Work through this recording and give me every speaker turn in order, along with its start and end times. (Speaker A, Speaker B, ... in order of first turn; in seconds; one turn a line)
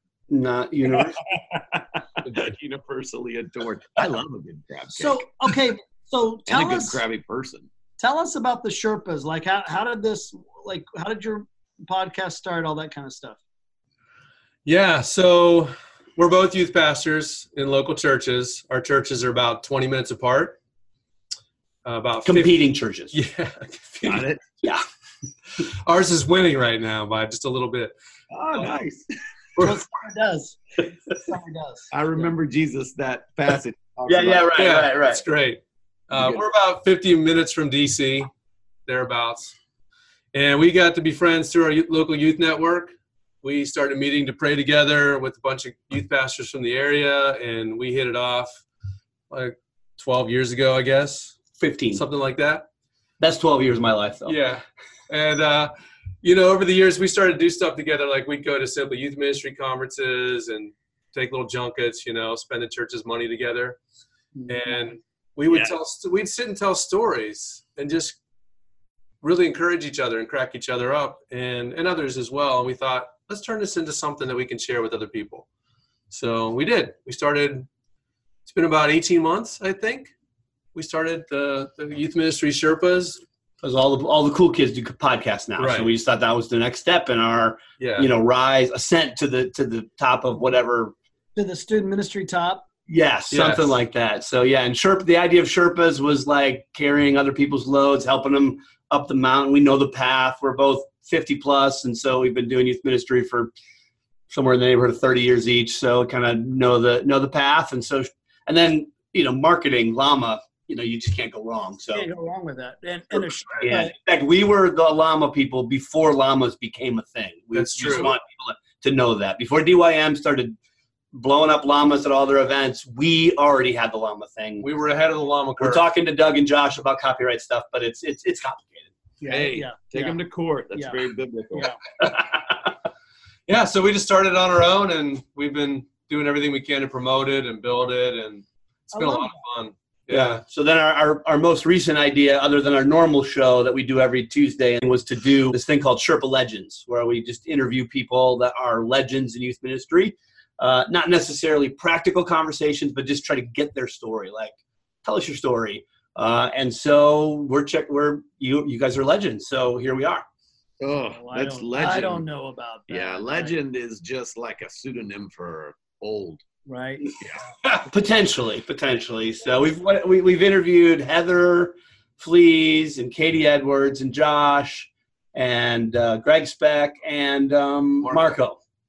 Speaker A: 0.3-1.2
Speaker B: 1.3-5.2
Speaker C: 4.9-7.0
Speaker B: 6.5-7.7
Speaker C: 8.0-13.4
Speaker D: 14.6-20.6
Speaker D: 21.8-22.6
Speaker A: 22.2-23.1
Speaker D: 23.1-24.3
Speaker B: 24.0-24.4
Speaker D: 25.6-27.9
Speaker B: 28.3-29.1
Speaker C: 29.6-32.3
Speaker B: 31.9-34.6
Speaker A: 34.1-35.2
Speaker D: 34.5-38.3
Speaker B: 36.1-36.4
Speaker D: 38.9-39.5
Speaker D: 40.3-48.6
Speaker D: 49.3-51.4
Speaker A: 51.6-52.0
Speaker D: 51.9-52.6
Speaker A: 53.2-54.4
Speaker D: 54.2-63.8
Speaker C: 64.3-64.9
Speaker D: 64.5-68.2
Speaker B: 65.5-65.7
Speaker D: 69.2-75.5
Speaker D: 76.1-77.7
Speaker D: 78.5-80.1
Speaker D: 80.7-83.2
Speaker A: 83.6-90.9
Speaker D: 85.6-85.9
Speaker D: 87.8-88.1
Speaker C: 91.3-92.7
Speaker A: 92.9-103.5
Speaker D: 93.3-93.8
Speaker A: 104.3-112.1
Speaker C: 111.9-113.9
Speaker A: 113.6-120.5
Speaker D: 117.5-118.1
Speaker A: 121.1-124.7
Speaker D: 124.6-125.8
Speaker A: 125.6-128.9
Speaker C: 129.2-130.2
Speaker B: 129.2-131.7
Speaker C: 130.7-131.0
Speaker A: 132.0-132.6
Speaker D: 133.5-140.4
Speaker C: 138.9-139.4
Speaker A: 140.1-160.2
Speaker B: 160.8-162.2
Speaker C: 161.0-163.5
Speaker B: 162.9-166.4
Speaker C: 166.7-167.2
Speaker A: 167.6-178.6